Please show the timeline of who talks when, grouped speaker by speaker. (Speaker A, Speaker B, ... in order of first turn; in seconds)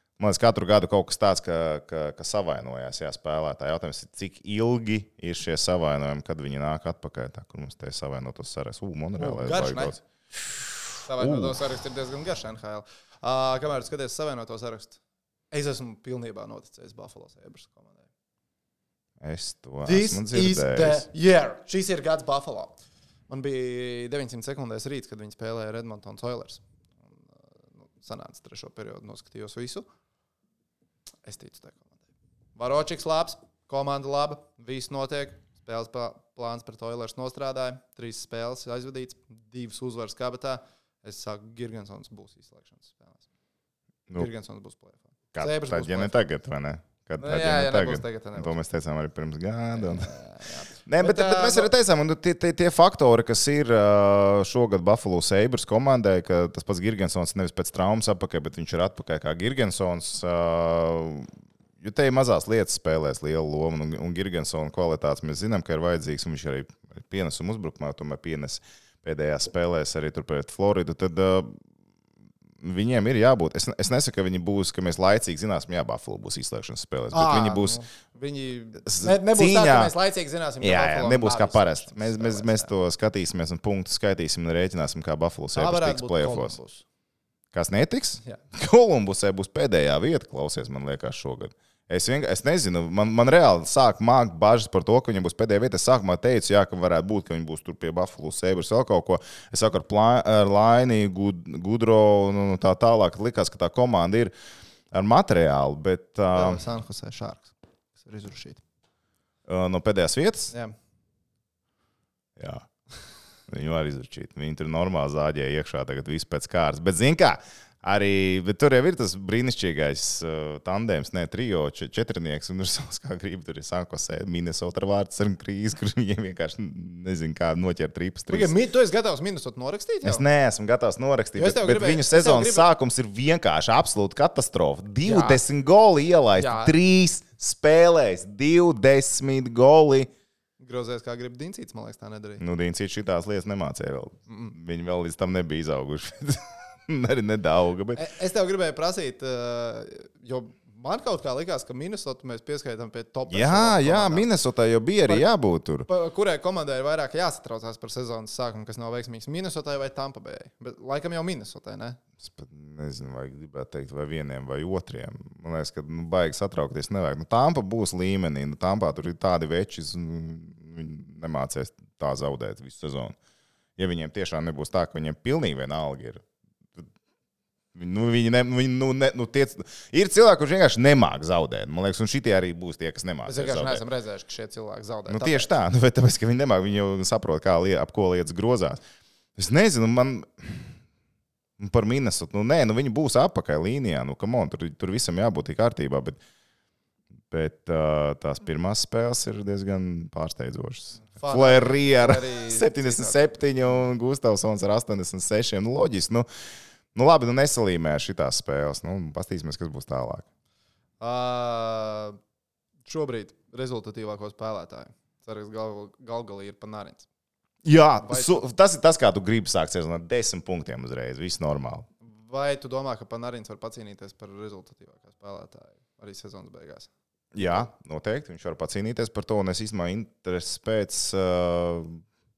Speaker A: 0.2-10.0, 11.2-11.6, 19.2-21.1, 45.3-50.1, 50.9-71.6, 72.6-77.8, 78.8-79.9, 80.6-86.6, 87.5-104.3, 104.9-106.6, 109.5-110.5, 112.4-112.7, 113.5-128.5, 130.0-140.1, 142.4-148.0, 153.3-155.9, 162.2-173.2, 173.8-176.2, 177.7-183.8, 185.1-188.8, 189.4-190.7, 191.6-196.2, 197.3-206.3, 206.9-210.2, 217.6-221.9, 227.3-232.0
Speaker B: 9.2-9.9, 11.1-15.0, 15.5-18.1, 19.8-22.7, 23.3-26.6, 27.8-29.9, 31.2-32.0, 32.5-43.2, 44.1-46.2, 47.2-48.6, 49.8-51.7, 77.1-82.7, 85.5-86.8, 106.3-108.6, 128.3-130.2, 131.4-132.7, 135.0-135.4, 136.4-136.7, 140.6-142.4, 144.3-144.6, 147.9-154.3, 155.9-162.0, 183.2-185.5, 201.1-203.3, 211.0-212.2, 212.8-217.1, 218.0-218.4, 222.0-226.9